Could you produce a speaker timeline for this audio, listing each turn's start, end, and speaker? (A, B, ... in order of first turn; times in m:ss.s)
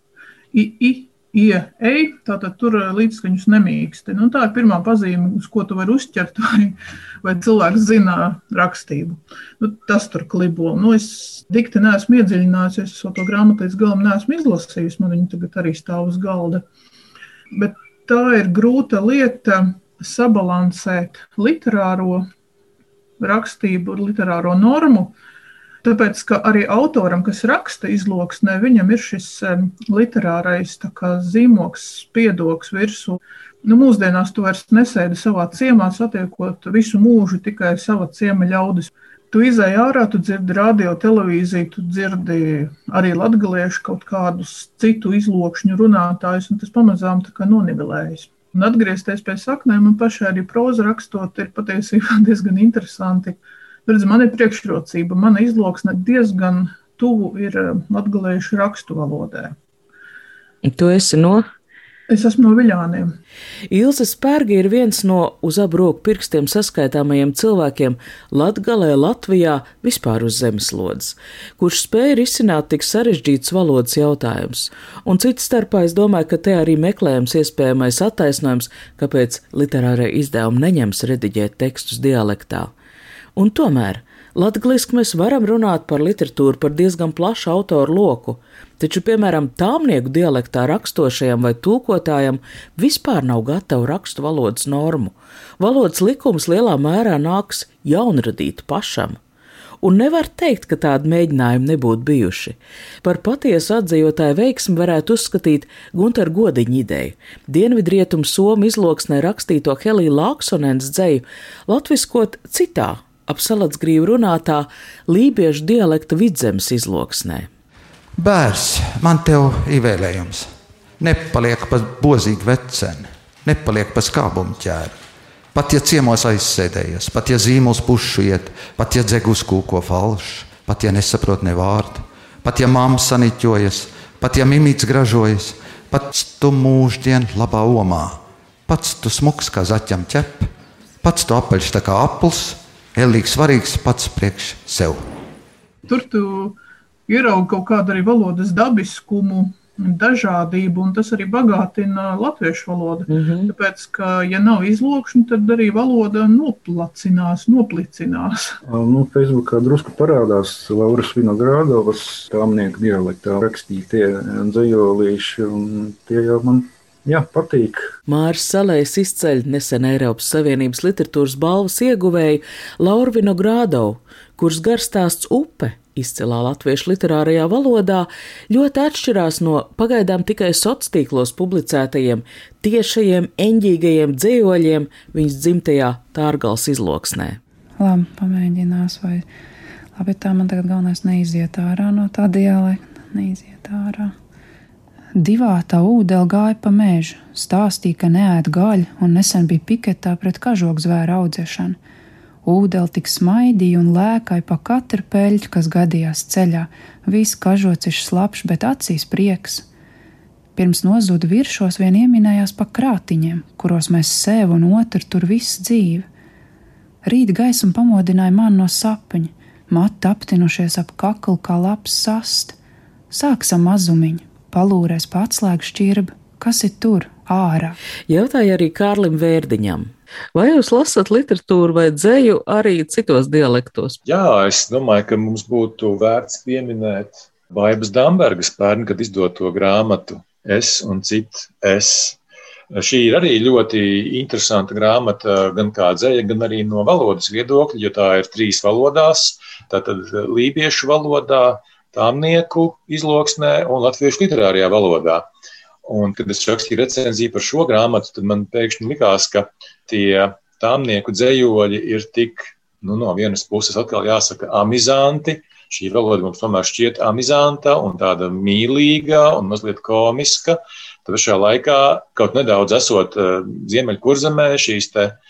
0:00.5-0:16.6 A
0:17.5-0:22.2 A
0:23.2-0:25.1 A
0:25.8-0:59.5 A
1:00.6-1:01.4 B
1:02.1-1:03.1 A
1:03.7-1:22.7 B
1:23.3-1:39.2 B
1:39.8-1:57.5 B
1:58.2-2:00.5 C
2:01.0-2:05.0 C
2:05.5-2:20.5 C
2:21.0-2:25.0 C
2:25.9-2:26.6 A
2:27.1-2:38.6 A
2:33.1-2:33.5 B
2:38.6-2:47.9 D
2:48.1-3:07.4 B
3:07.8-3:09.2 E
3:09.9-3:14.1 E
3:15.1-3:21.8 E
3:22.4-3:29.7 E
3:30.6-3:36.1 E
3:37.0-3:42.6 E
3:43.1-3:47.8 E
3:48.1-3:54.0 B
3:54.0-4:02.2 F
4:02.7-4:15.3 F
4:15.8-4:35.2 F